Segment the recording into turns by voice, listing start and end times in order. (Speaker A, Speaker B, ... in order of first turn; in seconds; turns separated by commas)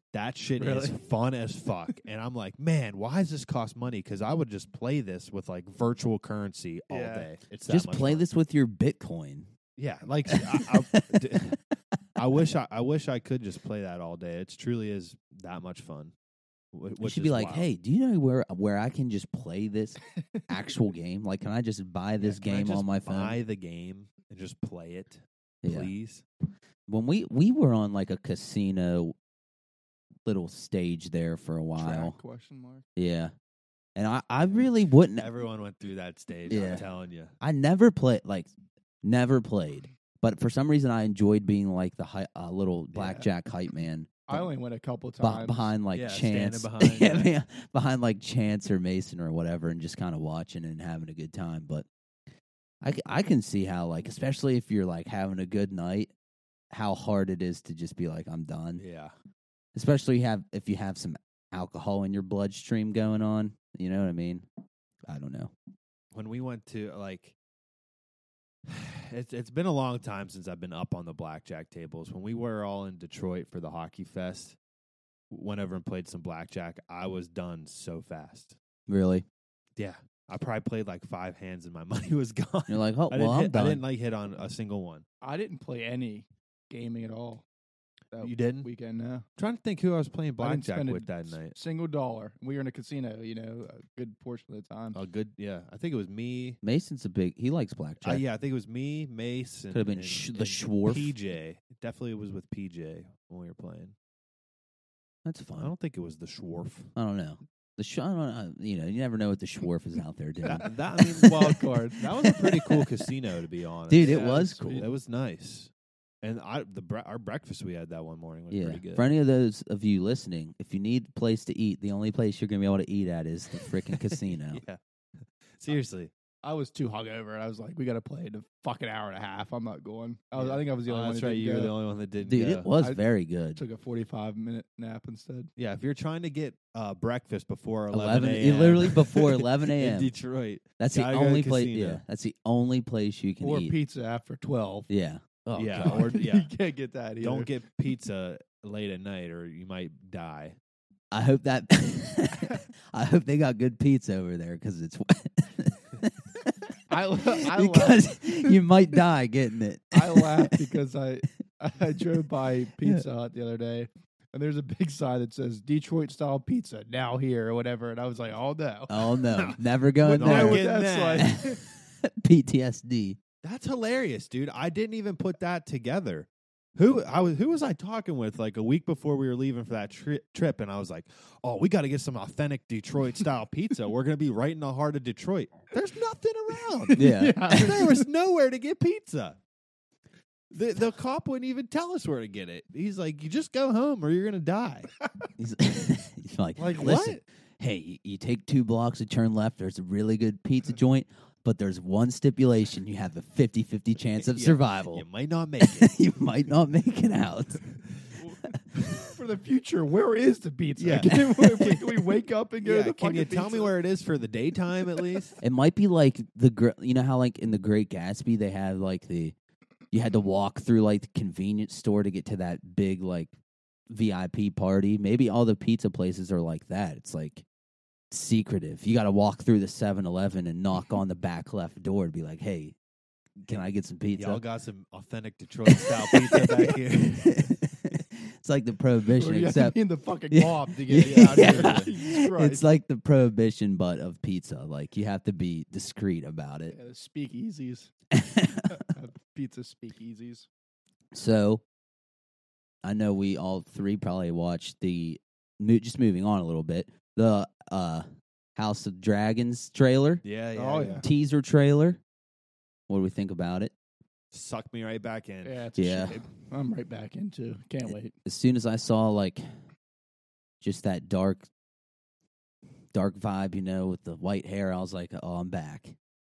Speaker A: 0.1-8.2, Speaker B: 0.6-0.9, Speaker B: 6.9-7.3, Speaker C: 7.7-9.5, Speaker A: 9.8-11.6, Speaker C: 10.3-11.5, Speaker A: 12.2-16.1, Speaker A: 16.7-17.7, Speaker C: 17.0-23.4, Speaker A: 22.2-26.2, Speaker C: 25.6-25.9, Speaker C: 26.9-29.1, Speaker C: 30.2-32.1, Speaker B: 31.8-32.8, Speaker C: 33.0-33.3, Speaker C: 34.0-35.3, Speaker A: 35.1-37.3, Speaker C: 36.5-36.8, Speaker B: 36.5-36.8, Speaker C: 37.4-38.5, Speaker C: 39.0-44.5, Speaker B: 42.9-43.2, Speaker B: 44.3-45.7, Speaker C: 45.2-51.9, Speaker A: 45.9-47.3, Speaker C: 52.8-56.1, Speaker C: 56.7-58.8, Speaker A: 58.8-59.1, Speaker C: 59.7-64.5, Speaker C: 65.1-65.5, Speaker A: 66.1-67.3, Speaker A: 68.7-74.6, Speaker A: 75.3-78.6, Speaker C: 78.9-79.2, Speaker A: 79.8-85.0, Speaker C: 82.7-83.8, Speaker B: 85.2-87.4, Speaker B: 88.1-89.2, Speaker A: 88.2-88.7, Speaker A: 89.4-91.5, Speaker B: 90.4-95.0, Speaker A: 94.9-96.6, Speaker C: 96.6-98.2, Speaker A: 98.0-103.9, Speaker C: 99.7-101.1, Speaker C: 105.2-105.7, Speaker A: 105.6-106.9, Speaker C: 107.0-111.4, Speaker A: 110.4-115.7, Speaker B: 111.2-112.1, Speaker C: 112.2-112.9, Speaker C: 113.9-114.8, Speaker B: 114.0-114.9, Speaker A: 116.2-119.0, Speaker C: 118.5-124.6, Speaker A: 123.9-126.1, Speaker B: 126.4-131.7, Speaker A: 130.3-132.7, Speaker C: 132.2-133.6, Speaker B: 133.5-135.5, Speaker A: 135.6-142.0, Speaker C: 137.9-140.1, Speaker C: 140.8-143.7, Speaker B: 143.4-144.9, Speaker C: 144.9-146.1, Speaker A: 145.5-146.5, Speaker B: 145.7-147.5, Speaker A: 147.2-150.6, Speaker C: 151.1-156.5, Speaker B: 156.9-158.6, Speaker C: 157.3-160.6, Speaker B: 159.9-169.2, Speaker C: 168.9-170.6, Speaker A: 169.3-169.6, Speaker B: 170.0-171.6, Speaker A: 170.1-171.4, Speaker C: 171.2-173.2, Speaker A: 173.4-189.4, Speaker B: 186.9-187.9, Speaker C: 186.9-187.8, Speaker A: 190.5-194.9, Speaker C: 195.4-205.0, Speaker B: 196.6-197.1, Speaker A: 196.6-197.2, Speaker A: 204.2-205.9, Speaker C: 205.6-207.6, Speaker B: 208.2-213.7, Speaker A: 210.8-212.0, Speaker A: 212.6-215.4, Speaker C: 215.4-219.3, Speaker C: 219.9-223.3, Speaker C: 223.9-227.4, Speaker C: 228.1-232.8, Speaker C: 233.4-234.4, Speaker A: 234.2-237.6, Speaker C: 235.7-239.8, Speaker B: 239.1-242.6, Speaker C: 240.3-246.7, Speaker A: 240.9-241.9, Speaker B: 246.7-247.9, Speaker C: 248.1-248.8, Speaker B: 248.7-250.5, Speaker C: 251.1-251.6, Speaker C: 252.8-258.0, Speaker C: 258.6-260.2, Speaker A: 260.2-261.1, Speaker B: 260.5-261.0, Speaker C: 261.0-262.0, Speaker C: 262.9-263.7, Speaker A: 264.3-265.6, Speaker B: 265.4-268.1, Speaker C: 265.8-266.2, Speaker C: 267.8-269.4, Speaker C: 270.6-271.5, Speaker C: 272.9-275.9